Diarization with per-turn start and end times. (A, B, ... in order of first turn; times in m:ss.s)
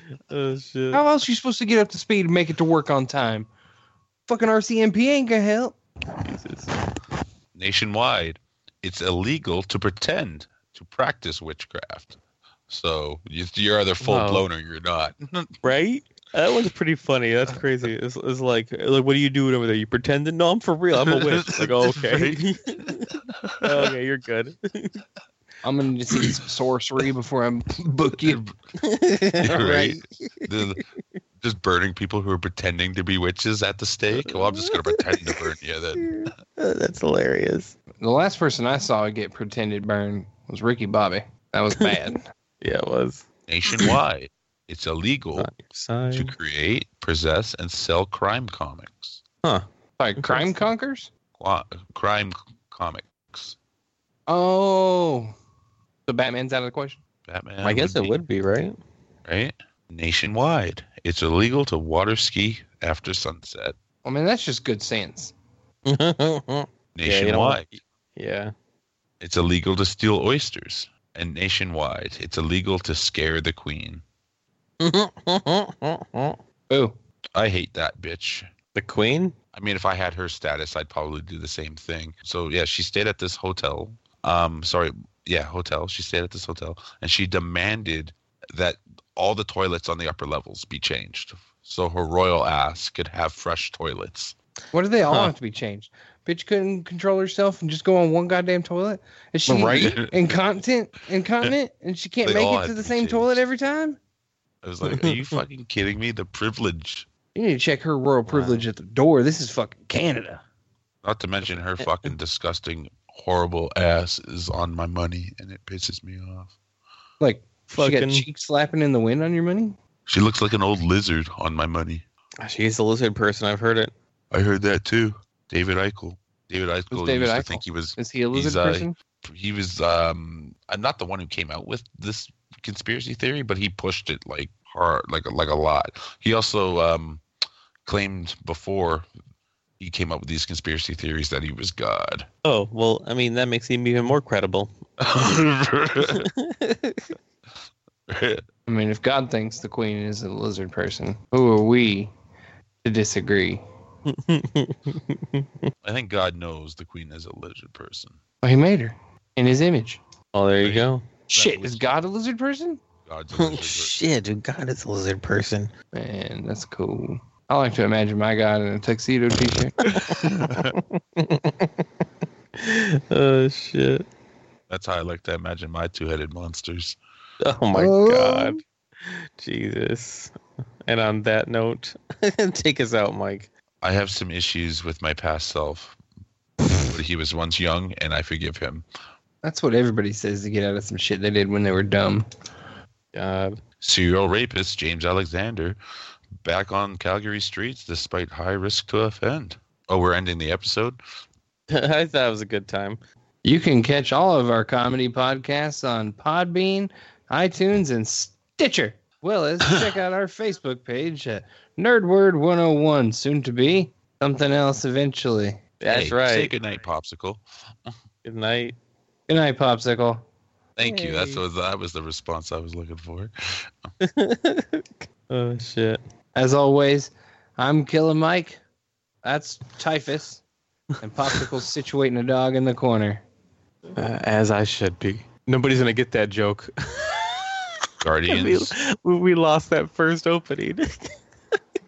0:00.3-0:01.0 A
0:00.9-0:03.5 B
0:04.3-0:05.8 B
0:06.1-0:06.7 A
0:07.5-0:12.2 C
0:12.7-0:15.5 C
0:14.0-0:14.5 A
0:15.6-0:25.0 A
0:21.0-0:23.9 C
0:25.6-0:28.4 B
0:28.2-0:28.5 C
0:28.8-0:30.8 A
0:29.4-0:30.8 C
0:31.4-0:36.3 C
0:34.1-0:37.8 A
0:38.0-0:42.2 B
0:42.6-0:44.0 A
0:43.5-0:45.5 C
0:45.4-0:46.3 A
0:46.1-0:49.2 C
0:50.0-0:51.1 B
0:50.2-0:50.6 A
0:51.4-0:53.6 C
0:54.3-0:55.3 B
0:56.1-0:57.0 B
0:57.2-0:58.2 C
0:57.6-0:58.8 A
0:59.3-1:03.8 C
1:04.0-1:05.3 B
1:05.8-1:08.5 A
1:07.0-1:07.7 C
1:09.2-1:14.0 C
1:14.8-1:16.4 A
1:16.7-1:16.9 B
1:17.4-1:18.5 C
1:18.7-1:19.4 A
1:19.5-1:34.3 C
1:34.7-1:44.0 B
1:39.5-1:40.0 A
1:39.8-1:40.1 C
1:42.2-1:43.4 C
1:44.6-1:47.1 C
1:44.8-1:45.4 A
1:47.3-1:50.4 B
1:48.3-1:48.6 A
1:51.0-1:56.5 C
1:51.8-1:52.1 A
1:57.2-1:59.8 B
1:57.7-1:58.2 A
2:00.1-2:02.0 C
2:02.4-2:03.9 A
2:04.3-2:17.2 C
2:06.9-2:08.9 B
2:17.8-2:19.1 C
2:19.8-2:22.3 C
2:22.4-2:24.7 A
2:25.0-2:26.3 C
2:26.1-2:27.1 A
2:28.1-2:28.4 C
2:28.7-2:32.1 B
2:32.8-2:33.6 B
2:34.0-2:35.7 A
2:35.8-2:38.2 C
2:38.4-2:40.0 B
2:40.3-2:41.1 A
2:40.6-2:41.8 C
2:41.3-2:42.8 B
2:43.0-2:44.0 C
2:43.4-2:45.7 A
2:45.9-2:49.8 B
2:49.8-2:51.7 A
2:49.9-2:50.8 C
2:52.6-2:54.0 A
2:54.7-2:57.0 C
2:57.4-3:00.3 A
2:57.7-2:58.6 B
3:00.8-3:03.5 A
3:03.8-3:06.0 C
3:06.9-3:08.8 C
3:09.4-3:12.2 B
3:13.1-3:13.6 A
3:13.8-3:15.8 C
3:16.4-3:21.0 C
3:21.7-3:23.0 A
3:23.4-3:35.6 B
3:35.8-3:36.5 A
3:35.9-3:38.0 C
3:38.2-3:38.7 A
3:39.3-3:40.2 B
3:40.8-3:43.9 C
3:40.8-3:41.4 A
3:44.0-3:46.0 A
3:46.3-3:48.6 B
3:49.2-3:50.4 B
3:51.0-3:53.2 B
3:54.0-3:57.6 A
3:58.0-3:58.8 C
3:58.3-4:01.1 A